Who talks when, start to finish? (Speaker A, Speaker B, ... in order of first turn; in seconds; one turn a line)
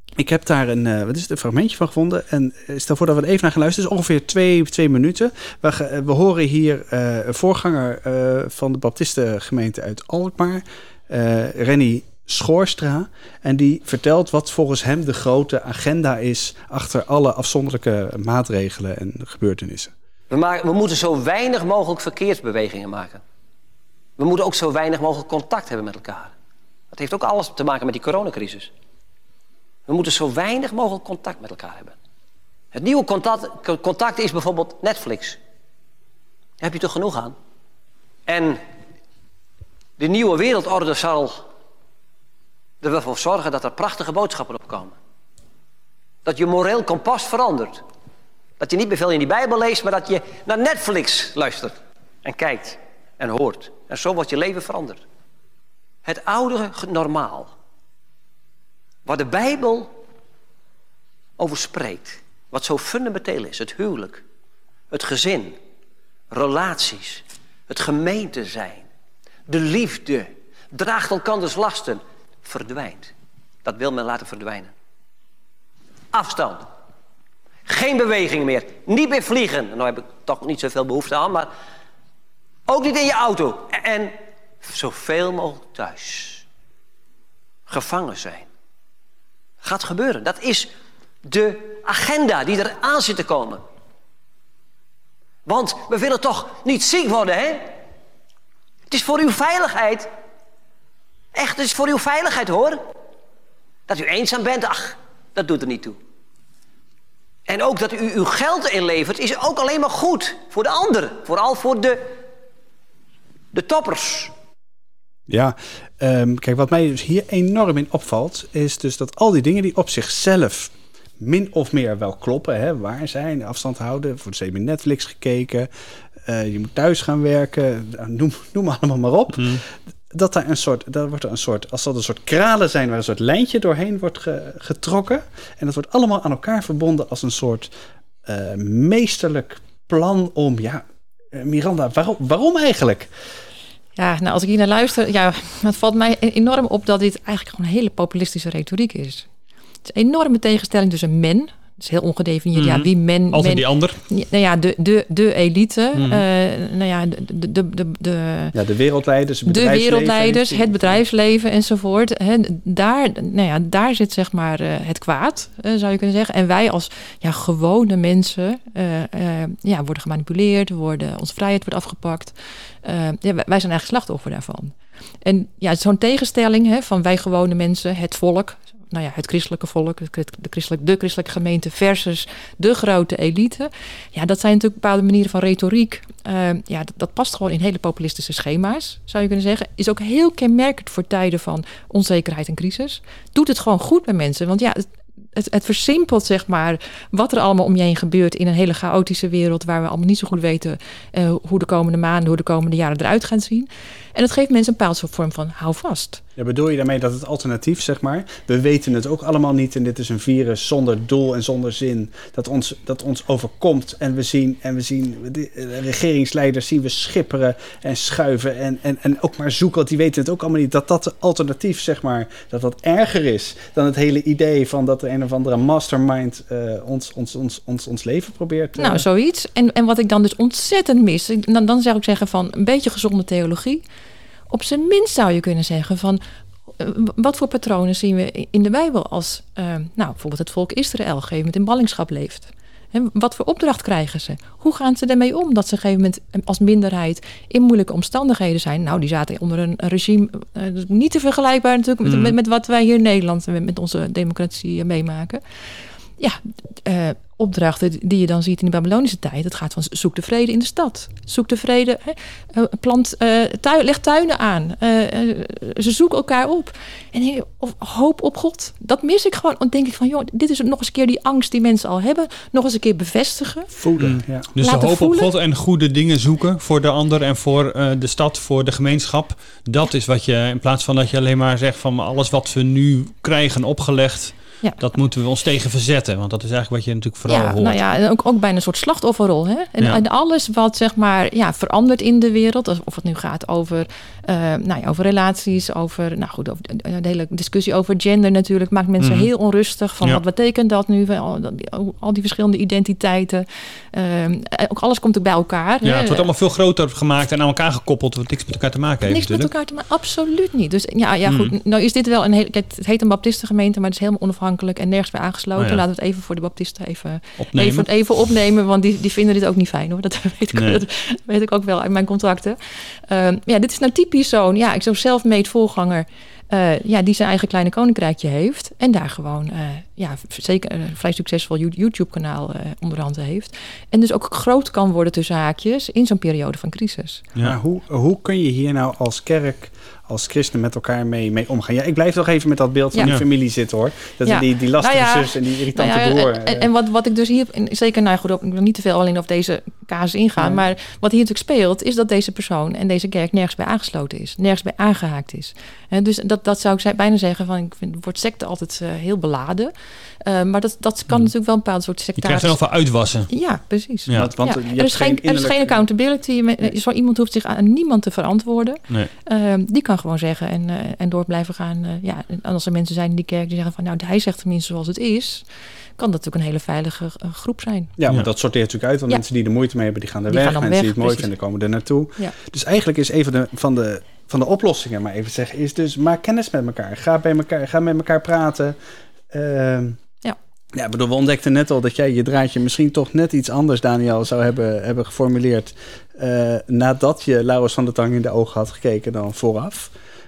Speaker A: 0.2-19.9
Speaker B: 20.3-23.2
Speaker B: 24.2-26.3
Speaker B: 26.9-28.7
Speaker B: 29.9-31.9
Speaker B: 32.7-35.4
Speaker B: 36.6-37.4
Speaker B: 38.3-38.6
Speaker B: 40.0-41.5
Speaker B: 42.8-45.0
Speaker B: 46.2-47.8
Speaker B: 48.6-55.0
Speaker B: 56.0-57.5
Speaker B: 59.0-59.9
Speaker B: 61.4-64.2
Speaker B: 64.9-65.6
Speaker B: 66.3-68.9
Speaker B: 69.5-73.1
Speaker B: 73.6-74.7
Speaker B: 76.1-76.7
Speaker B: 77.7-81.5
Speaker B: 82.7-86.4
Speaker B: 87.7-88.5
Speaker B: 89.6-90.7
Speaker B: 91.2-93.6
Speaker B: 95.5-97.8
Speaker B: 98.9-100.1
Speaker B: 101.3-102.8
Speaker B: 103.9-106.0
Speaker B: 107.5-112.1
Speaker B: 113.5-114.3
Speaker A: 115.3-125.7
Speaker A: 126.2-137.7
Speaker C: 129.4-129.6
Speaker A: 138.2-140.8
Speaker A: 141.3-143.1
Speaker D: 144.0-149.3
Speaker D: 149.9-158.6
Speaker C: 152.6-154.0
Speaker C: 155.9-156.2
Speaker A: 158.5-161.0
Speaker D: 159.5-206.2
Speaker A: 206.4-229.0
Speaker D: 228.8-233.8
Speaker D: 234.5-236.2
Speaker D: 236.8-255.4
Speaker C: 252.1-252.3
Speaker D: 256.2-273.8
Speaker A: 273.8-274.5
Speaker C: 274.0-287.8
Speaker D: 274.6-275.3
Speaker D: 287.3-306.3
Speaker C: 299.0-299.3
Speaker C: 305.8-309.5
Speaker D: 309.1-337.2
Speaker C: 311.3-311.5
Speaker C: 317.4-317.9
Speaker C: 320.6-320.8
Speaker A: 337.4-346.7
Speaker D: 342.9-343.2
Speaker D: 344.2-359.7
Speaker D: 360.2-362.6
Speaker C: 362.2-363.3
Speaker D: 363.3-375.4
Speaker A: 364.1-365.8
Speaker D: 376.0-377.9
Speaker A: 378.0-388.8
Speaker D: 380.3-381.3
Speaker A: 389.3-390.0
Speaker A: 390.8-399.9